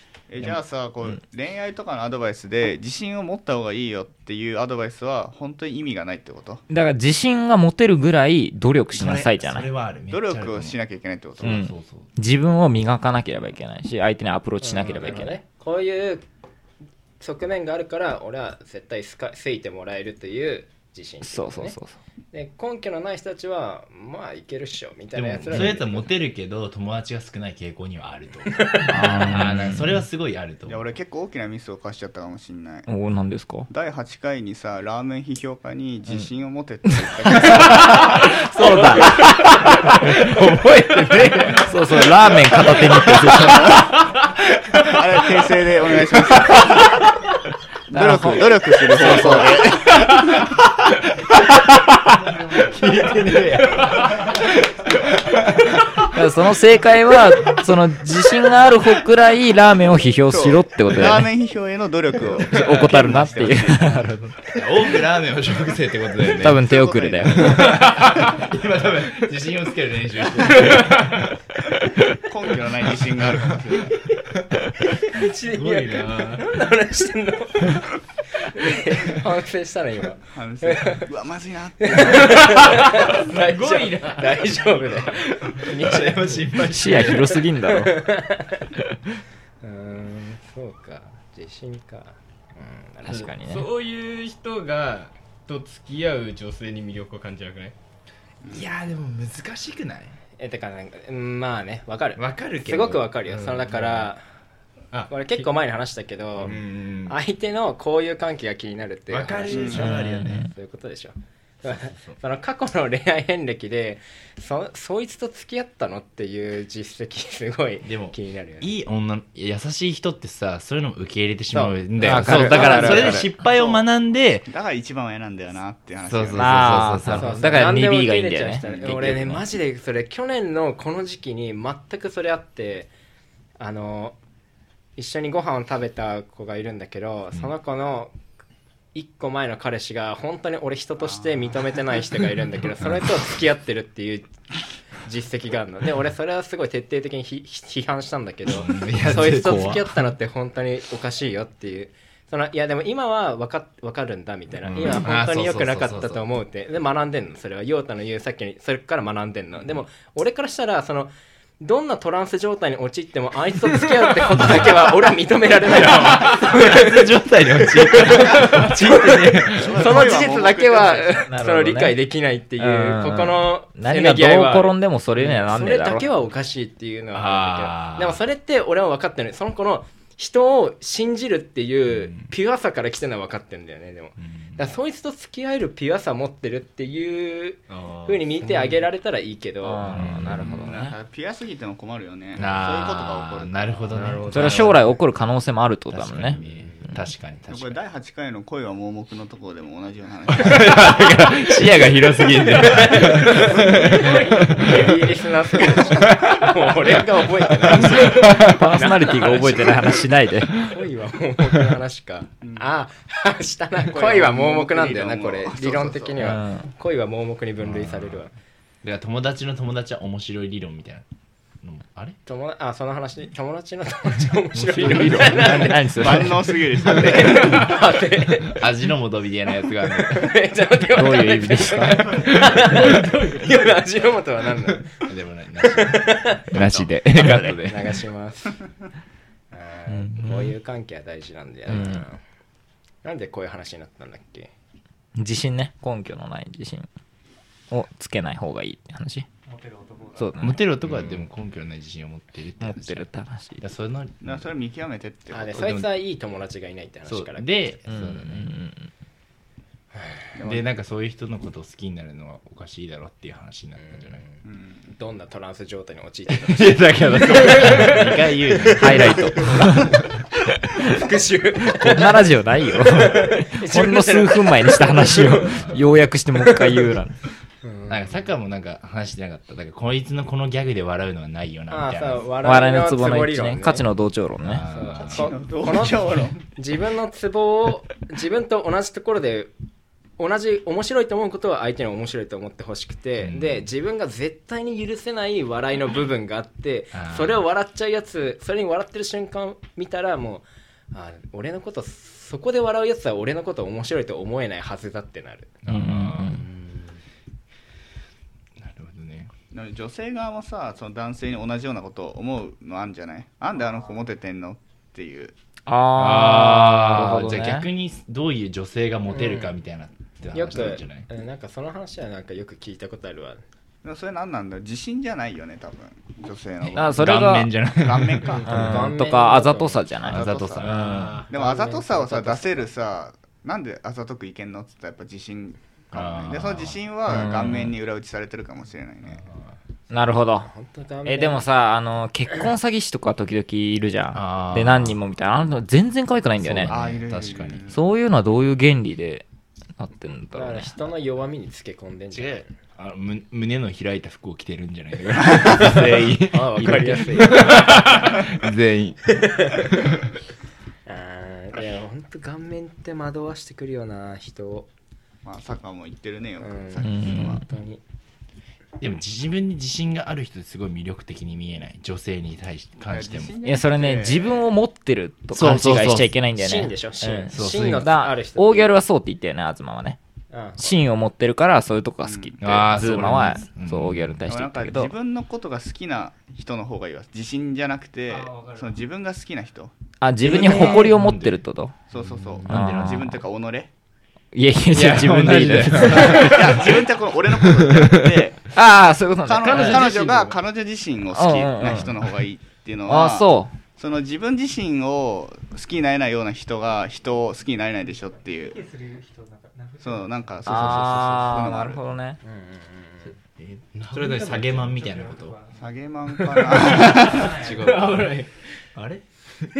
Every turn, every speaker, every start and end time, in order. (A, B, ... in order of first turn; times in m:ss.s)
0:00.3-0:06.6 A
0:06.7-0:09.6 B
0:08.9-0:10.8 C
0:10.1-0:11.7 A
0:11.4-0:12.1 C
0:11.4-0:15.4 B
0:14.6-0:16.2 D
0:17.2-0:21.8 D
0:21.2-0:22.0 B
0:22.3-0:26.1 D
0:25.1-0:30.9 C
0:28.5-0:29.0 D
0:28.9-0:30.0 B
0:30.7-0:32.9 A
0:32.9-0:33.7 B
0:33.7-0:38.4 A
0:37.4-0:39.1 B
0:37.6-0:38.2 C
0:38.6-0:41.7 D
0:39.6-0:43.7 C
0:41.6-0:43.9 B
0:44.6-0:45.0 C
0:44.8-0:47.0 A
0:47.9-0:50.1 B
0:47.9-0:50.2 A
0:50.0-0:56.0 C
0:52.4-0:52.7 E
0:56.1-1:01.3 B
1:00.3-1:04.1 A
1:02.4-1:04.4 B
1:04.5-1:06.6 C
1:06.4-1:07.7 B
1:06.5-1:08.0 A
1:07.2-1:11.3 C
1:12.3-1:14.0 A
1:13.2-1:13.6 C
1:15.1-1:21.0 D
1:15.5-1:16.4 F
1:20.3-1:22.8 A
1:21.8-1:26.6 D
1:22.7-1:25.6 F
1:25.4-1:27.4 C
1:26.7-1:28.1 B
1:27.6-1:28.7 D
1:29.6-1:33.3 D
1:33.0-1:33.7 B
1:33.1-1:37.7 F
1:38.5-1:40.2 C
1:40.4-1:44.2 D
1:42.2-1:43.9 C
1:44.9-1:45.5 F
1:45.1-1:58.7 D
1:46.4-1:47.2 C
1:49.1-1:50.5 C
1:49.5-1:50.0 A
1:49.7-1:50.5 B
1:51.7-1:52.2 C
1:57.8-2:04.5 C
2:01.5-2:03.2 D
2:02.0-2:03.3 B
2:03.4-2:03.8 A
2:04.5-2:06.9 A
2:06.0-2:07.8 C
2:06.3-2:09.4 B
2:07.1-2:12.9 D
2:08.6-2:09.0 A
2:13.6-2:14.2 D
2:15.0-2:18.1 D
2:18.9-2:24.3 D
2:21.0-2:21.6 A
2:22.8-2:23.2 C
2:25.0-3:09.8 D
2:28.4-2:29.9 C
2:34.6-2:36.3 C
2:44.3-2:44.7 C
2:45.8-2:50.1 C
2:49.5-2:51.2 A
2:51.3-2:52.0 B
2:52.6-2:56.1 B
2:57.1-2:58.2 C
3:01.9-3:02.3 C
3:04.2-3:04.6 C
3:08.0-3:08.5 C
3:09.6-3:11.0 B
3:09.9-3:10.7 C
3:10.4-3:13.9 A
3:12.3-3:14.8 C
3:13.9-3:14.8 F
3:14.3-3:16.4 B
3:15.9-3:17.8 C
3:17.5-3:21.4 A
3:20.3-3:25.0 C
3:22.5-3:30.0 D
3:23.2-3:24.1 A
3:25.6-3:28.7 C
3:27.9-3:30.6 B
3:30.6-3:38.3 D
3:32.4-3:32.7 A
3:33.8-3:36.2 A
3:36.2-3:36.7 B
3:37.6-3:38.2 C
3:38.8-3:41.0 C
3:41.6-3:42.2 C
3:42.2-3:46.1 D
3:44.5-3:46.3 C
3:44.7-3:46.6 B
3:45.9-3:47.7 A
3:46.8-3:48.7 D
3:47.0-3:47.7 C
3:48.4-3:50.4 C
3:49.8-3:55.0 D
3:50.9-3:52.4 B
3:52.0-3:53.0 C
3:55.0-3:58.0 C
3:55.6-3:56.5 D
3:56.5-3:56.9 A
3:57.6-3:58.6 D
3:59.5-4:02.2 D
3:59.9-4:00.5 B
4:01.7-4:02.0 B
4:03.0-4:04.5 D
4:05.2-4:06.9 B
4:07.7-4:09.2 B
4:09.4-4:10.5 E
4:10.2-4:10.6 B
4:10.4-4:13.1 C
4:12.6-4:13.6 B
4:13.6-4:14.4 C
4:14.2-4:15.7 A
4:15.3-4:17.4 D
4:15.5-4:15.9 C
4:17.1-4:18.5 C
4:17.9-4:18.9 B
4:19.9-4:20.3 D
4:20.4-4:20.6 A
4:20.4-4:24.2 C
4:23.8-4:24.4 D
4:24.4-4:24.9 A
4:24.9-4:29.8 D
4:26.3-4:30.0 C
4:28.7-4:29.9 B
4:30.7-4:35.8 D
4:31.7-4:37.2 B
4:35.4-4:35.9 C
4:36.4-4:36.9 D
4:37.6-4:38.3 D
4:37.9-4:42.3 C
4:41.7-4:43.8 D
4:42.4-4:44.6 B
4:44.4-4:45.8 C
4:44.6-4:49.5 D
4:45.0-4:46.4 A
4:50.2-5:05.5 D
4:53.2-4:53.7 C
4:56.9-4:57.4 C
5:05.6-5:06.8 C
5:05.7-5:06.4 B
5:08.6-5:09.3 C
5:09.5-5:15.3 A
5:15.7-5:17.6 B
5:15.9-5:21.0 C
5:19.1-5:19.5 D
5:20.3-5:23.4 D
5:23.8-5:28.5 A
5:26.6-5:28.9 C
5:26.8-5:27.5 B
5:28.4-5:30.2 B
5:28.5-5:29.8 D
5:30.0-5:39.2 A
5:30.0-5:31.2 C
5:30.6-5:31.3 F
5:31.3-5:32.7 D
5:35.9-5:37.7 C
5:37.1-5:37.6 B
5:39.0-5:39.6 C
5:39.9-5:40.5 B
5:40.4-5:41.4 D
5:41.0-5:46.7 B
5:44.1-5:45.0 C
5:46.4-5:47.6 C
5:46.7-5:47.8 A
5:47.7-5:49.2 B
5:49.8-5:50.7 B
5:50.3-5:52.5 D
5:52.1-6:00.0 C
5:55.4-5:58.1 D
5:59.0-5:59.7 D
6:00.8-6:04.7 D
6:05.2-6:07.4 A
6:06.4-6:07.8 D
6:06.8-6:07.4 B
6:08.8-6:13.3 C
6:12.8-6:14.5 A
6:13.4-6:20.0 B
6:15.3-6:16.2 C
6:16.4-6:18.7 D
6:17.3-6:17.9 C
6:20.3-6:20.8 D
6:20.6-6:24.9 B
6:22.0-6:22.6 A
6:22.4-6:24.2 C
6:24.3-6:29.7 A
6:28.1-6:28.8 E
6:30.0-6:31.7 B
6:30.2-6:31.4 C
6:30.5-6:30.8 A
6:31.9-6:33.7 A
6:31.9-6:33.1 C
6:32.5-6:33.2 B
6:34.3-6:36.6 B
6:34.7-6:36.8 C
6:36.0-6:38.5 A
6:37.6-6:38.1 C
6:38.5-6:39.8 B
6:39.2-6:48.6 A
6:39.4-6:40.4 F
6:41.1-6:42.0 B
6:42.9-6:43.5 B
6:47.9-6:50.8 E
6:49.8-6:51.8 A
6:50.4-6:52.2 B
6:52.2-6:53.1 D
6:53.4-6:55.4 C
6:53.7-6:55.0 F
6:54.8-6:55.8 E
6:55.6-6:57.3 A
6:56.5-6:59.5 C
6:56.6-6:58.4 F
6:57.1-6:57.8 E